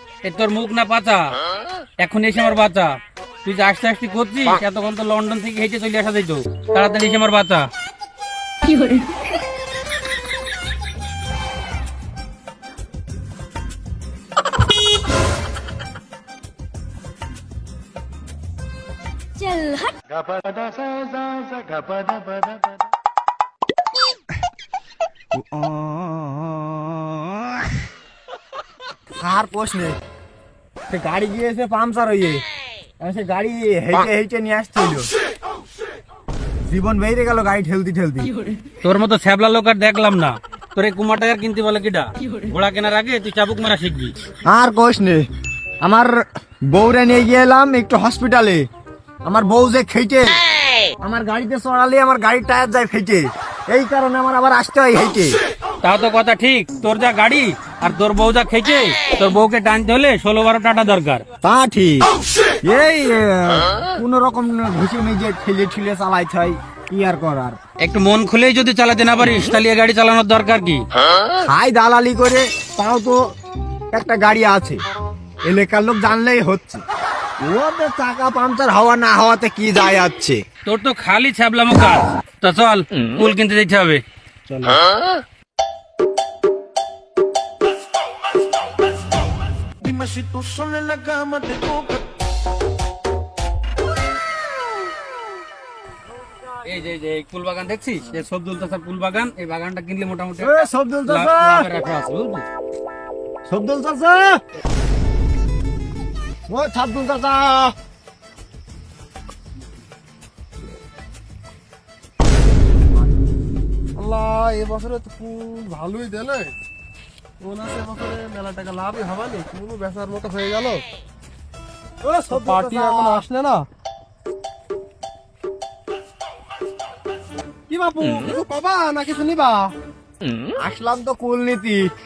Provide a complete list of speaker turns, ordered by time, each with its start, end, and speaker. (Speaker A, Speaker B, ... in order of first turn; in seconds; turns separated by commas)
Speaker A: 0.2-1.3, Speaker A: 2.0-2.9, Speaker A: 3.4-7.7, Speaker B: 8.7-9.0, Speaker B: 19.4-22.4, Speaker C: 25.4-26.8, Speaker C: 29.2-30.0, Speaker C: 30.9-32.4, Speaker C: 33.0-35.1, Speaker C: 36.7-38.3, Speaker A: 38.8-44.1, Speaker C: 44.5-45.2, Speaker C: 45.8-46.1, Speaker C: 46.7-48.6, Speaker C: 49.3-50.4, Speaker C: 51.0-55.3, Speaker A: 55.8-61.2, Speaker C: 61.4-62.1, Speaker C: 62.6-67.6, Speaker A: 67.8-70.8, Speaker C: 71.5-73.2, Speaker C: 73.9-74.8, Speaker C: 75.5-76.8, Speaker C: 77.4-80.4, Speaker A: 80.7-84.0, Speaker D: 84.5-84.8, Speaker B: 89.8-92.0, Speaker A: 96.7-102.5, Speaker C: 100.4-101.7, Speaker C: 103.5-104.4, Speaker C: 106.5-107.7, Speaker D: 114.0-116.5, Speaker D: 117.4-120.8, Speaker C: 122.0-123.2, Speaker D: 122.3-123.7, Speaker D: 127.7-129.7, Speaker C: 130.6-131.9